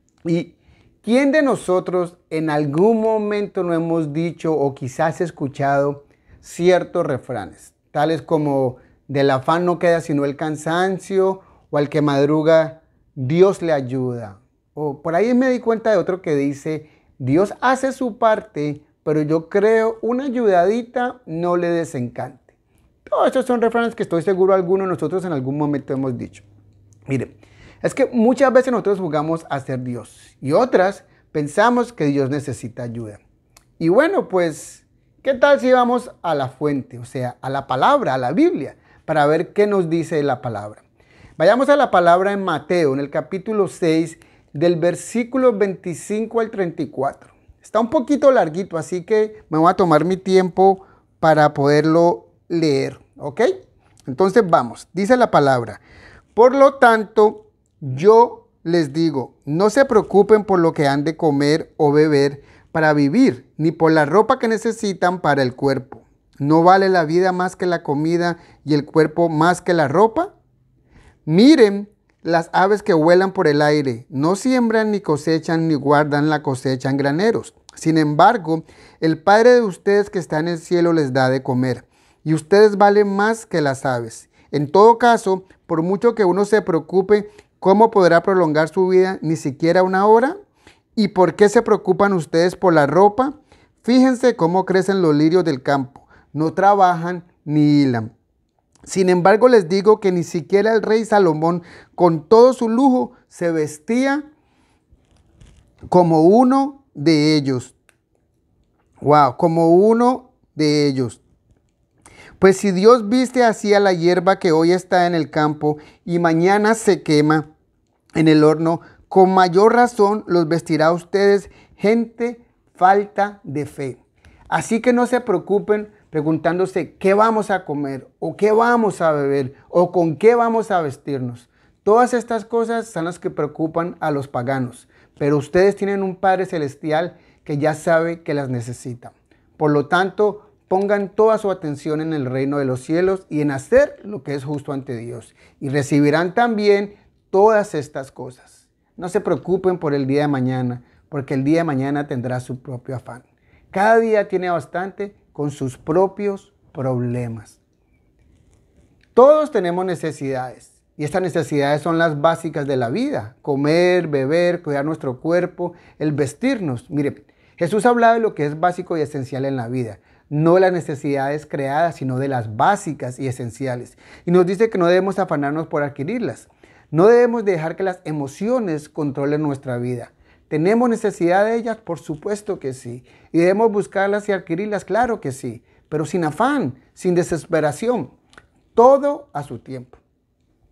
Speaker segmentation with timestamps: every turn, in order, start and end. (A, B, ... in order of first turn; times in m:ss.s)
0:00.3-0:22.5 A
0:23.1-0:26.4 A
0:27.1-0:33.2 A
0:33.8-0:40.8 A
0:41.4-0:53.5 A
0:54.1-0:55.8 A
0:56.4-1:10.3 A
1:11.3-1:30.3 A
1:31.0-1:38.1 A
1:38.9-1:44.2 A
1:45.9-1:47.8 A
1:49.0-1:51.2 A
1:52.4-1:57.5 A
1:58.2-2:37.6 A
2:39.2-3:08.1 A
3:08.8-3:10.0 A